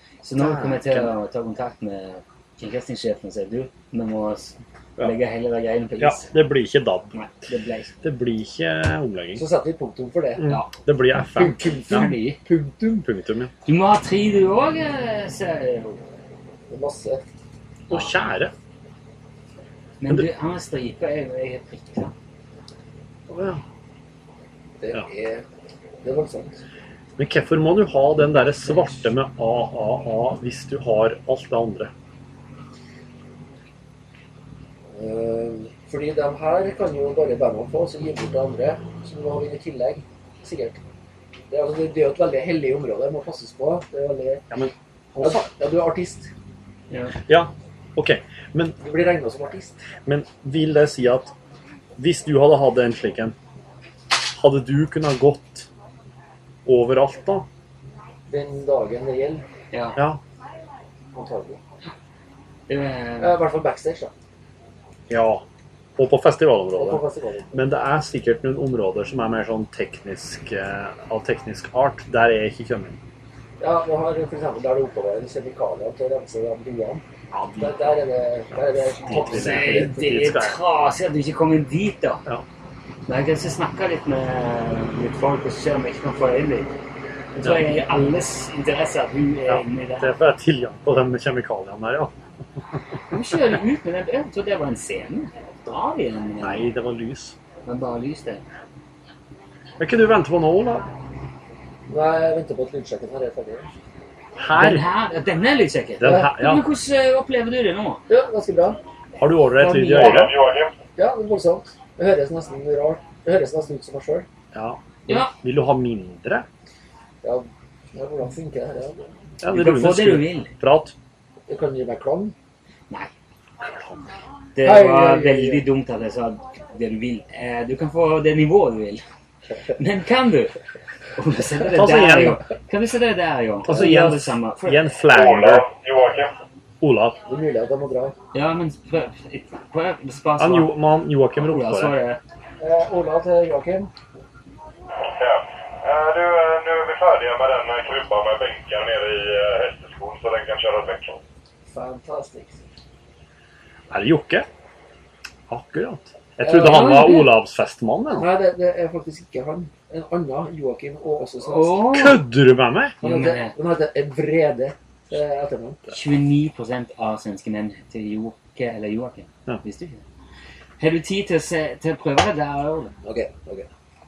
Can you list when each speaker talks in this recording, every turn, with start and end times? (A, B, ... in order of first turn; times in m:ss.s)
0:00.2-0:06.3 A
0:00.4-0:01.1 B
0:06.0-0:07.1 B
0:07.1-0:07.9 A
0:08.0-0:09.4 B
0:09.4-0:10.5 C
0:10.4-0:12.1 B
0:10.4-0:10.7 A
0:11.3-0:13.0 C
0:11.7-0:12.4 A
0:13.0-0:13.5 B
0:13.7-0:16.0 A
0:16.7-0:17.3 C
0:17.9-0:18.5 B
0:20.0-0:22.1 A
0:23.3-0:23.6 B
0:24.8-0:25.4 C
0:26.0-0:26.6 C
0:27.2-0:31.9 B
0:35.0-0:40.8 C
0:41.5-0:44.4 C
0:44.5-0:45.5 B
0:45.2-0:46.3 C
0:46.9-0:47.2 A
0:47.3-0:48.8 B
0:48.8-0:49.8 C
0:50.1-0:51.3 B
0:52.0-0:53.4 B
0:54.1-0:55.7 B
0:56.6-0:57.5 B
0:58.3-0:59.4 C
0:59.7-1:00.0 A
1:00.0-1:00.2 B
1:01.1-1:01.6 C
1:02.7-1:03.4 A
1:03.2-1:04.1 C
1:05.1-1:05.4 B
1:06.0-1:13.0 B
1:06.7-1:07.6 C
1:13.6-1:17.0 C
1:17.3-1:17.9 B
1:17.6-1:20.2 C
1:18.8-1:20.6 B
1:19.1-1:22.2 A
1:23.1-1:26.7 A
1:27.4-1:28.0 B
1:27.4-1:30.1 A
1:29.5-1:32.1 B
1:33.1-1:36.7 A
1:36.4-1:37.4 B
1:37.6-1:38.4 A
1:39.8-1:40.9 B
1:41.9-1:43.7 C
1:44.4-1:44.9 B
1:44.6-1:48.0 A
1:46.0-1:46.7 B
1:46.0-1:46.3 C
1:48.1-1:48.8 C
1:49.2-1:50.4 B
1:49.6-1:50.4 A
1:50.0-1:50.8 D
1:51.0-1:54.3 C
1:54.5-1:56.5 B
1:55.1-1:55.3 A
1:57.2-1:59.1 C
1:59.4-2:00.9 B
1:59.5-2:00.5 A
2:01.5-2:02.3 C
2:03.6-2:04.1 B
2:04.6-2:09.0 A
2:04.6-2:05.6 C
2:09.7-2:10.6 A
2:11.2-2:15.0 A
2:11.6-2:12.4 B
2:13.6-2:15.7 B
2:15.1-2:16.4 D
2:16.8-2:17.2 B
2:17.3-2:18.2 C
2:18.3-2:20.8 A
2:20.4-2:22.0 B
2:21.4-2:22.2 A
2:22.6-2:23.9 C
2:25.0-2:31.2 D
2:31.7-2:32.6 C
2:33.9-2:34.5 B
2:35.5-2:38.3 B
2:36.4-2:36.9 C
2:36.5-2:37.4 A
2:38.2-2:41.9 C
2:41.5-2:42.3 A
2:41.8-2:43.0 B
2:43.0-2:43.6 A
2:43.0-2:45.8 C
2:45.9-2:50.0 A
2:50.8-2:52.9 A
2:53.0-2:53.7 C